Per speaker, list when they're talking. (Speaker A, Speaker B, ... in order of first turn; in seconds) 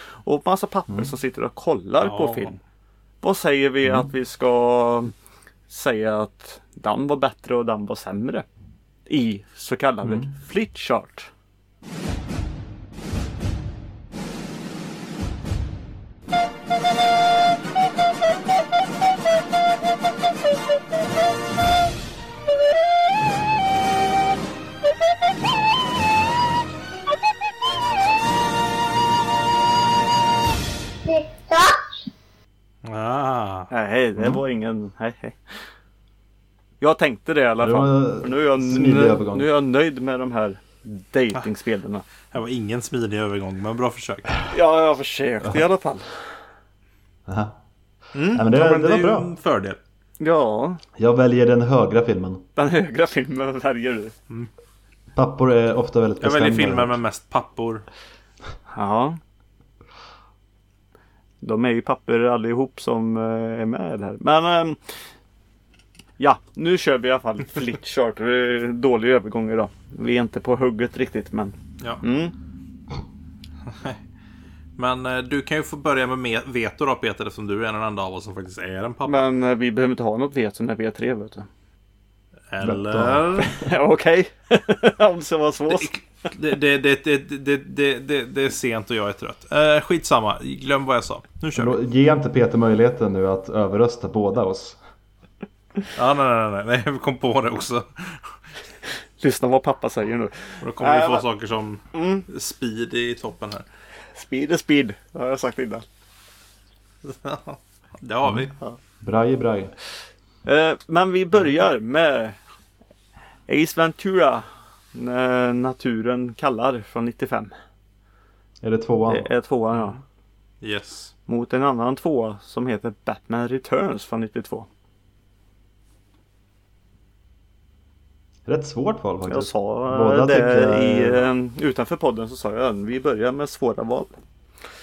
Speaker A: 0.2-2.6, 3.2-5.1, 5.7-8.5, 9.1-11.3, 33.7-35.6, 36.8-42.1, 44.5-46.4, 50.2-50.8, 52.6-54.1, 58.7-59.2, 61.4-65.0, 66.2-72.4, 79.1-81.5, 83.4-85.9, 99.2-101.2, 101.9-102.3, 104.1-105.8, 110.5-112.4, 113.5-117.5, 119.1-120.0, 121.3-124.7, 129.3-134.2
Speaker B: 2.0-2.6, 32.9-33.7, 42.3-44.5, 48.1-49.8, 56.2-57.9, 74.8-79.2, 82.5-83.5, 85.7-91.8, 96.0-98.4, 100.6-103.7, 107.0-108.5, 120.6-121.1
Speaker C: 10.0-10.3, 34.2-34.4, 37.6-39.5, 47.3-47.6, 48.3-49.3, 51.0-52.4, 55.1-57.0, 82.6-83.4, 91.5-94.8, 109.0-109.7, 118.6-119.3, 128.5-131.2